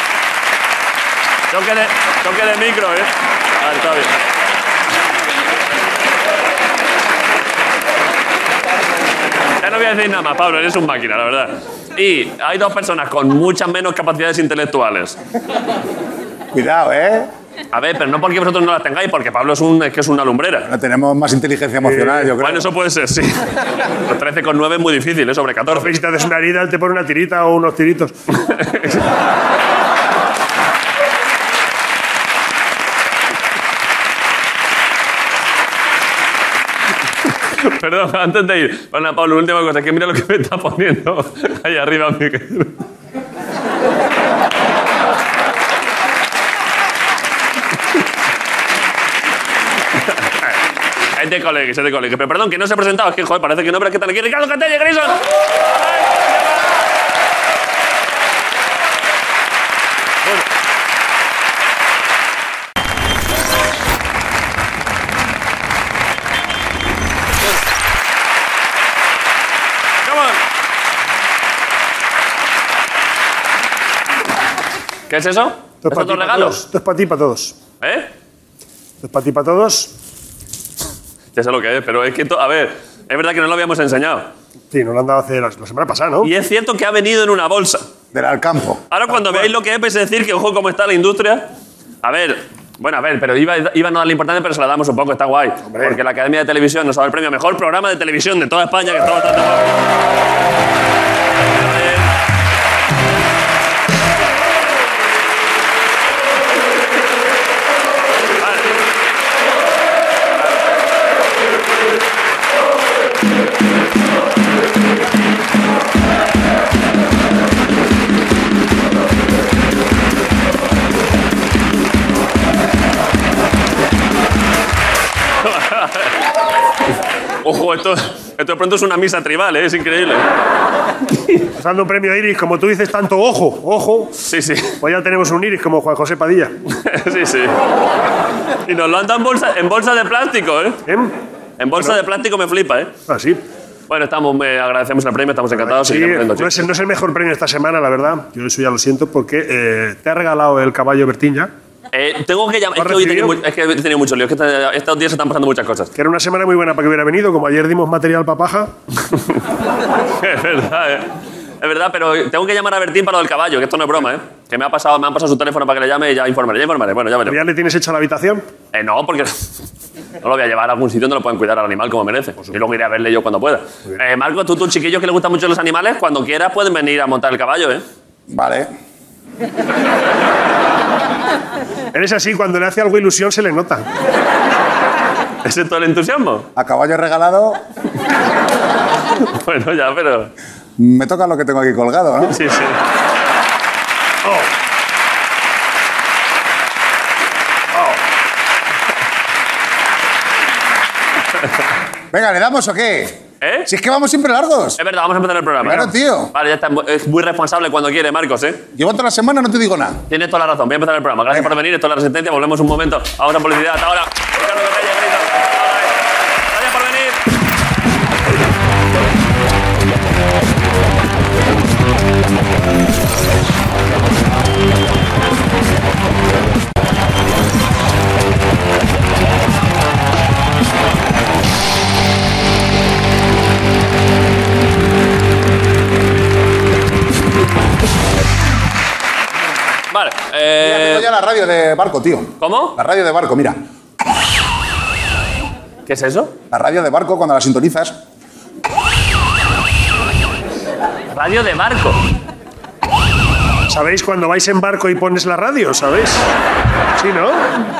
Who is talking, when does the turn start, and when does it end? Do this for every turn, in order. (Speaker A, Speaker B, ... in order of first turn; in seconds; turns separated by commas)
Speaker A: 1.5-4.2, Speaker A: 9.6-15.2, Speaker B: 16.5-17.3, Speaker A: 17.7-20.7, Speaker B: 20.7-22.7, Speaker C: 21.8-22.3, Speaker A: 22.4-25.9, Speaker C: 25.7-28.1, Speaker A: 28.4-29.0, Speaker A: 37.5-42.8, Speaker A: 49.9-50.6, Speaker A: 51.1-55.2, Speaker A: 70.0-70.4, Speaker A: 75.1-76.6, Speaker C: 75.8-77.5, Speaker A: 77.8-78.1, Speaker C: 79.0-79.9, Speaker A: 81.3-84.3, Speaker C: 84.7-86.3, Speaker A: 86.2-87.9, Speaker B: 88.1-88.8, Speaker A: 88.9-91.5, Speaker C: 89.1-89.5, Speaker A: 92.0-99.8, Speaker C: 95.6-95.9, Speaker A: 101.5-102.1, Speaker A: 108.4-108.7, Speaker A: 125.4-126.2, Speaker A: 127.4-130.2, Speaker C: 131.6-134.2, Speaker A: 134.2-134.8, Speaker C: 134.8-136.5, Speaker A: 136.7-137.6, Speaker A: 138.7-140.8, Speaker C: 140.8-141.2, Speaker A: 141.6-142.9, Speaker C: 143.1-143.4, Speaker A: 143.9-146.7, Speaker C: 145.5-151.5, Speaker A: 151.9-155.9, Speaker C: 152.8-153.4, Speaker C: 155.9-158.7, Speaker A: 160.2-161.1, Speaker A: 161.6-167.4, Speaker C: 167.2-168.4, Speaker A: 168.7-169.4, Speaker A: 170.2-177.8, Speaker B: 178.3-178.7, Speaker C: 181.9-183.9, Speaker A: 185.4-186.5, Speaker B: 186.6-187.6, Speaker A: 189.2-190.3, Speaker B: 190.8-192.3, Speaker A: 192.3-192.8, Speaker C: 194.2-194.5, Speaker C: 197.7-198.0, Speaker B: 202.1-204.8, Speaker A: 203.4-203.7, Speaker A: 204.8-208.6, Speaker B: 205.6-206.3, Speaker B: 208.7-210.0, Speaker A: 210.1-217.2, Speaker A: 239.9-241.1, Speaker B: 240.6-243.6, Speaker A: 242.4-242.8, Speaker A: 245.9-246.3, Speaker B: 246.5-248.0, Speaker A: 251.1-252.0, Speaker C: 253.7-256.2, Speaker C: 257.0-257.5